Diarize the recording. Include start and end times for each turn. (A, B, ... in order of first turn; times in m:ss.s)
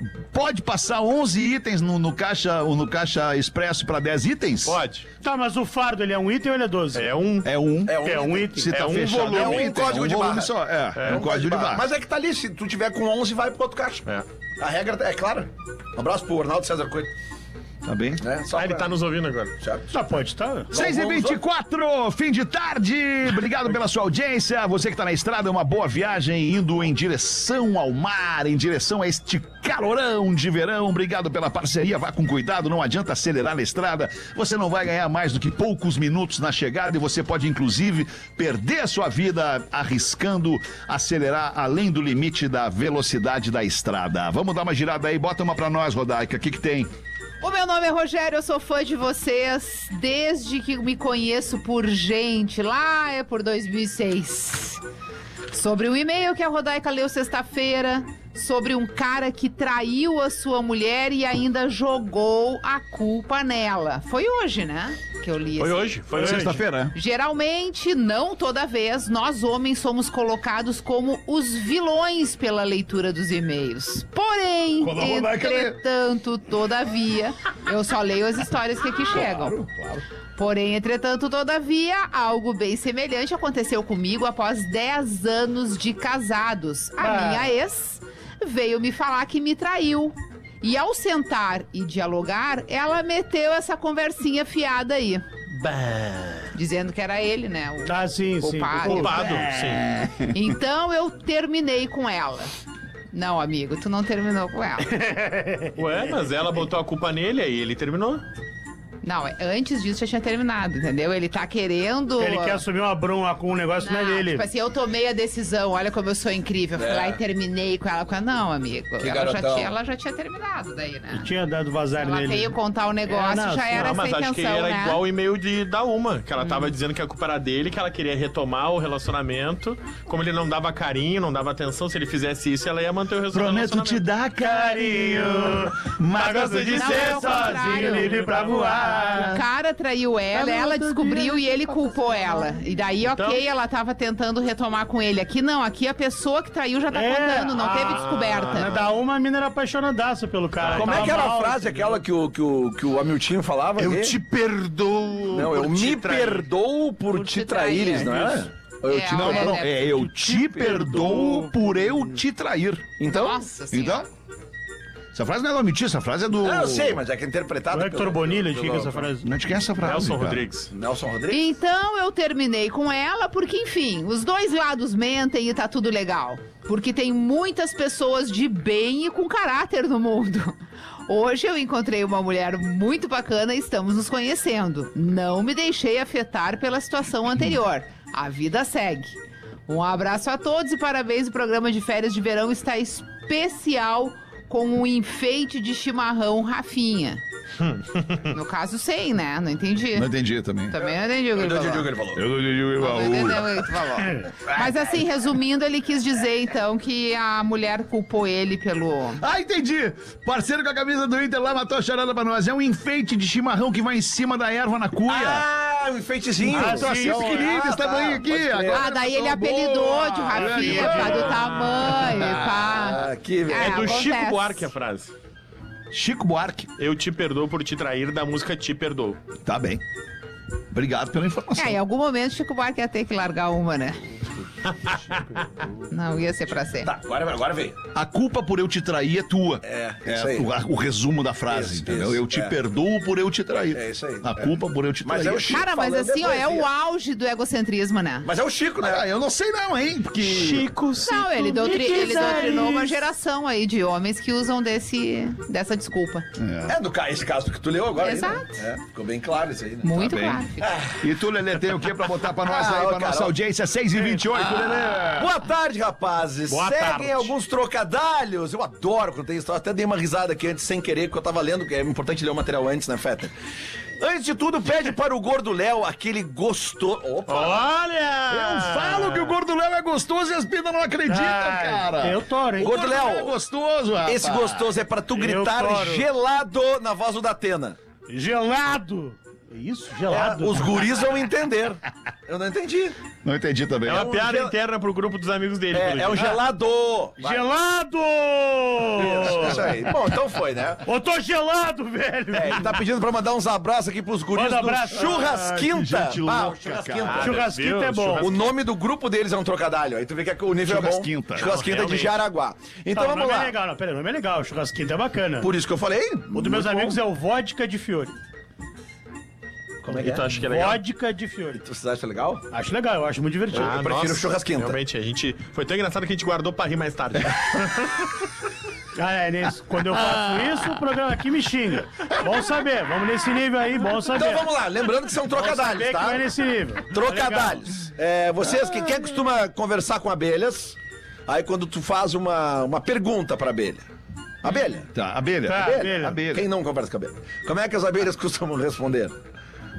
0:00.3-0:04.8 A
0:04.6-0:05.1 B
0:05.2-0:07.1 C
0:06.9-0:07.5 B
0:07.4-0:11.9 A
0:07.8-0:10.5 D
0:08.0-0:08.7 C
0:08.7-0:09.9 B
0:11.0-0:11.2 B
0:11.0-0:14.0 D
0:14.6-0:17.1 D
0:17.8-0:18.2 A
0:18.2-0:18.9 D
0:18.5-0:19.5 B
0:19.6-0:19.9 D
0:19.9-0:20.7 C
0:20.7-0:21.4 D
0:20.7-0:46.9 A
0:47.4-0:54.8 E
0:55.5-1:06.1 E
1:05.6-1:06.6 B
1:06.1-1:06.9 A
1:06.2-1:06.6 C
1:06.9-1:19.6 E
1:14.8-1:15.8 A
1:19.1-1:20.0 A
1:20.4-1:35.3 E
1:27.0-1:27.5 C
1:35.5-1:36.5 B
1:36.5-1:39.5 E
1:37.8-1:39.8 C
1:38.8-1:39.8 B
1:39.7-1:40.3 A
1:40.2-1:42.5 E
1:43.1-1:45.0 E
1:44.8-1:45.7 C
1:45.8-1:48.2 B
1:49.0-1:52.6 E
1:52.2-1:54.5 C
1:53.8-2:01.3 E
1:56.8-1:57.2 D
1:59.0-1:59.7 D
2:01.1-2:02.6 C
2:01.9-2:05.0 E
2:03.1-2:04.0 C
2:03.7-2:14.0 B
2:06.4-2:06.7 E
2:13.3-2:19.4 A
2:14.4-2:19.4 C
2:16.2-2:17.6 B
2:16.7-2:18.2 E
2:19.1-2:28.8 E
2:20.3-2:22.6 C
2:26.9-2:32.0 C
2:27.6-2:28.9 B
2:30.6-2:31.3 B
2:30.7-2:34.1 D
2:33.8-2:36.5 B
2:35.3-2:39.6 D
2:37.1-2:38.4 E
2:38.1-2:38.4 B
2:38.9-2:40.1 E
2:39.0-2:43.0 A
2:40.3-2:41.2 D
2:43.0-2:43.4 D
2:43.0-2:44.1 E
2:43.7-2:44.0 A
2:45.1-2:47.0 A
2:46.4-2:49.1 D
2:47.7-2:49.3 C
2:49.2-2:50.4 A
2:49.8-2:50.7 B
2:50.7-2:51.4 D
2:51.3-3:17.2 E
3:17.6-3:18.2 B
3:18.3-3:20.1 E
3:19.9-3:20.7 A
3:20.7-3:21.9 E
3:21.3-3:22.2 D
3:22.1-3:23.7 A
3:22.8-3:29.2 E
3:29.2-3:35.4 A
3:35.1-3:38.8 D
3:36.4-3:42.4 A
3:36.5-3:37.4 C
3:38.7-3:44.7 E
3:40.4-3:41.4 C
3:41.0-3:41.4 B
3:42.6-3:44.1 D
3:43.5-3:45.1 B
3:45.9-3:46.7 A
3:46.8-3:49.2 B
3:49.4-3:49.8 A
3:50.7-3:51.8 A
3:51.6-3:54.1 E
3:54.7-3:55.5 B
3:55.9-3:56.9 E
3:56.8-3:57.8 D
3:57.9-4:05.6 A
3:59.6-4:00.5 D
4:01.5-4:02.5 D
4:03.7-4:06.7 D
4:05.5-4:08.3 E
4:08.2-4:09.0 D
4:08.8-4:10.7 A
4:10.2-4:12.9 B
4:11.0-4:16.3 E
4:11.3-4:12.9 C
4:16.4-4:16.8 A
4:16.7-4:20.0 D
4:18.0-4:18.6 E
4:19.8-4:20.7 E
4:19.9-4:25.3 A
4:20.6-4:21.1 D
4:22.4-4:23.3 D
4:24.4-4:33.3 D
4:26.5-4:27.3 B
4:34.0-4:37.7 D
4:37.3-4:39.3 B
4:38.3-4:44.7 A
4:41.1-4:42.7 C
4:42.6-4:43.3 D
4:44.0-4:47.8 D
4:45.1-4:46.1 C
4:48.1-4:50.8 C
4:50.1-4:53.0 D
4:53.2-4:54.1 A
4:53.8-4:56.4 B
4:53.9-4:54.5 D
4:55.7-4:57.4 D
4:57.2-4:59.8 C
4:58.9-5:00.8 D
5:00.8-5:02.8 C
5:02.3-5:07.5 D
5:04.3-5:05.4 C
5:05.0-5:07.3 A
5:07.0-5:08.5 B
5:07.2-5:08.3 C
5:08.2-5:13.5 D
5:10.6-5:11.5 A
5:11.4-5:12.2 B
5:12.9-5:15.5 C
5:15.4-5:17.0 D
5:16.3-5:18.1 C
5:19.8-5:20.3 D
5:19.9-5:20.8 B
5:20.4-5:21.6 C
5:21.6-5:22.4 D
5:22.5-5:23.7 C
5:23.5-5:24.8 D
5:23.5-5:28.3 B
5:29.0-5:34.5 C
5:34.1-5:36.3 D
5:35.3-5:37.5 C
5:36.9-5:43.8 D
5:44.4-5:44.9 D
5:44.9-5:46.4 A
5:45.4-5:46.2 C
5:45.5-5:49.1 D